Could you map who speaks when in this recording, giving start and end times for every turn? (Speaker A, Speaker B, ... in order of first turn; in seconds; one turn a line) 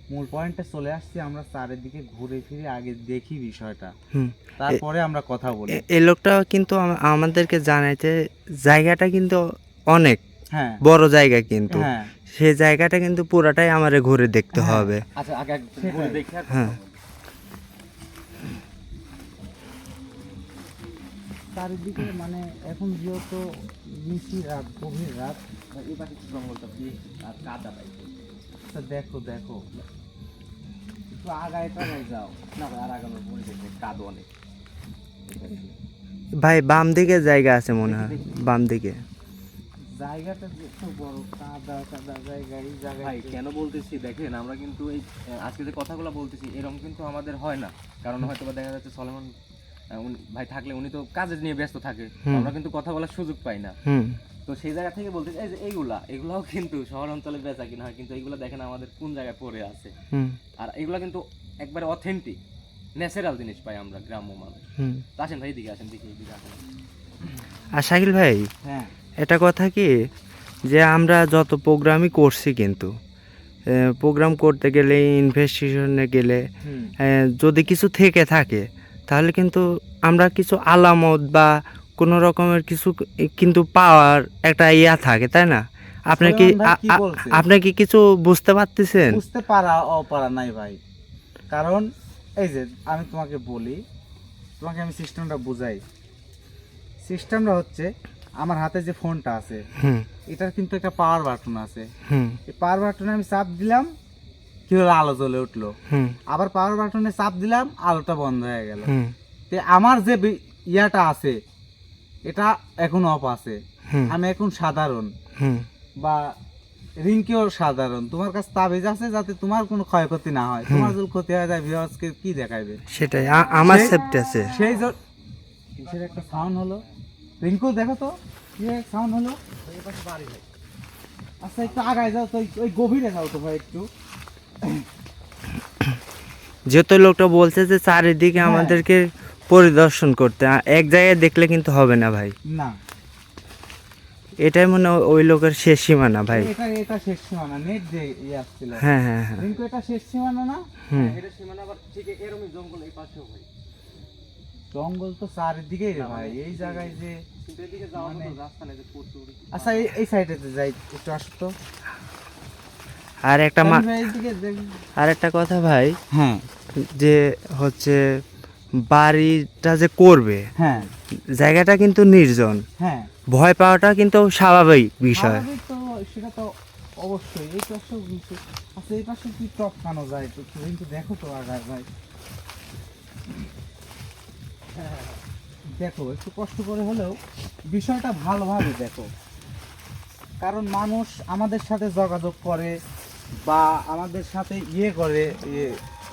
Speaker A: 0.1-3.9
Speaker B: 4.1-4.8
Speaker A: 4.6-5.8
Speaker B: 5.7-10.2
Speaker A: 10.5-10.8
Speaker B: 10.8-15.0
Speaker A: 11.7-12.1
Speaker A: 14.6-14.9
Speaker C: 15.2-17.0
Speaker A: 15.8-16.2
Speaker B: 16.5-16.8
Speaker A: 21.6-25.4
Speaker C: 25.7-28.2
Speaker A: 28.7-29.6
Speaker A: 31.1-32.4
Speaker C: 32.6-34.3
Speaker C: 35.3-35.7
Speaker B: 36.4-39.0
Speaker C: 37.8-38.4
Speaker A: 40.0-43.3
Speaker C: 43.0-49.3
Speaker C: 49.9-53.8
Speaker B: 52.3-52.5
Speaker B: 53.9-54.2
Speaker C: 54.5-59.9
Speaker B: 60.1-60.4
Speaker C: 60.6-62.4
Speaker C: 63.0-64.6
Speaker B: 64.8-65.0
Speaker C: 65.2-66.6
Speaker B: 67.8-68.5
Speaker A: 68.6-68.9
Speaker B: 69.2-69.9
Speaker B: 70.7-72.9
Speaker B: 73.7-76.5
Speaker A: 76.6-76.9
Speaker B: 77.0-89.2
Speaker A: 86.2-87.5
Speaker A: 89.1-90.8
Speaker A: 91.5-91.9
Speaker A: 92.4-93.8
Speaker A: 94.6-95.8
Speaker A: 97.0-97.9
Speaker A: 98.4-99.6
Speaker B: 99.8-100.1
Speaker A: 100.3-101.9
Speaker B: 102.1-102.4
Speaker A: 102.5-103.9
Speaker A: 104.7-105.7
Speaker B: 105.9-106.2
Speaker A: 106.3-108.9
Speaker B: 108.9-109.1
Speaker A: 109.5-111.4
Speaker A: 112.3-115.1
Speaker B: 115.4-115.7
Speaker A: 116.0-116.3
Speaker A: 117.0-122.8
Speaker B: 120.7-121.0
Speaker B: 122.9-124.5
Speaker A: 123.6-124.0
Speaker A: 124.5-125.0
Speaker C: 125.8-127.0
Speaker A: 125.8-126.8
Speaker A: 127.4-129.4
Speaker C: 129.6-130.5
Speaker A: 131.4-133.9
Speaker C: 131.7-131.9
Speaker A: 134.6-134.9
Speaker B: 136.7-142.3
Speaker A: 138.4-138.8
Speaker A: 142.5-142.8
Speaker B: 144.4-146.5
Speaker A: 146.3-148.8
Speaker B: 148.8-149.4
Speaker A: 149.4-150.6
Speaker B: 150.9-151.2
Speaker C: 150.9-153.5
Speaker A: 154.7-157.2
Speaker C: 155.9-159.9
Speaker A: 158.0-158.3
Speaker A: 159.5-161.5
Speaker B: 163.3-163.9
Speaker A: 163.6-164.6
Speaker B: 165.0-166.0
Speaker A: 166.1-166.4
Speaker B: 166.8-168.0
Speaker B: 168.9-170.5
Speaker A: 170.6-170.9
Speaker B: 171.3-172.6
Speaker A: 172.8-173.1
Speaker B: 173.3-175.5
Speaker A: 175.1-181.9
Speaker C: 184.7-185.2
Speaker A: 185.8-187.2
Speaker A: 187.7-189.1
Speaker A: 190.4-192.8
Speaker A: 193.4-195.8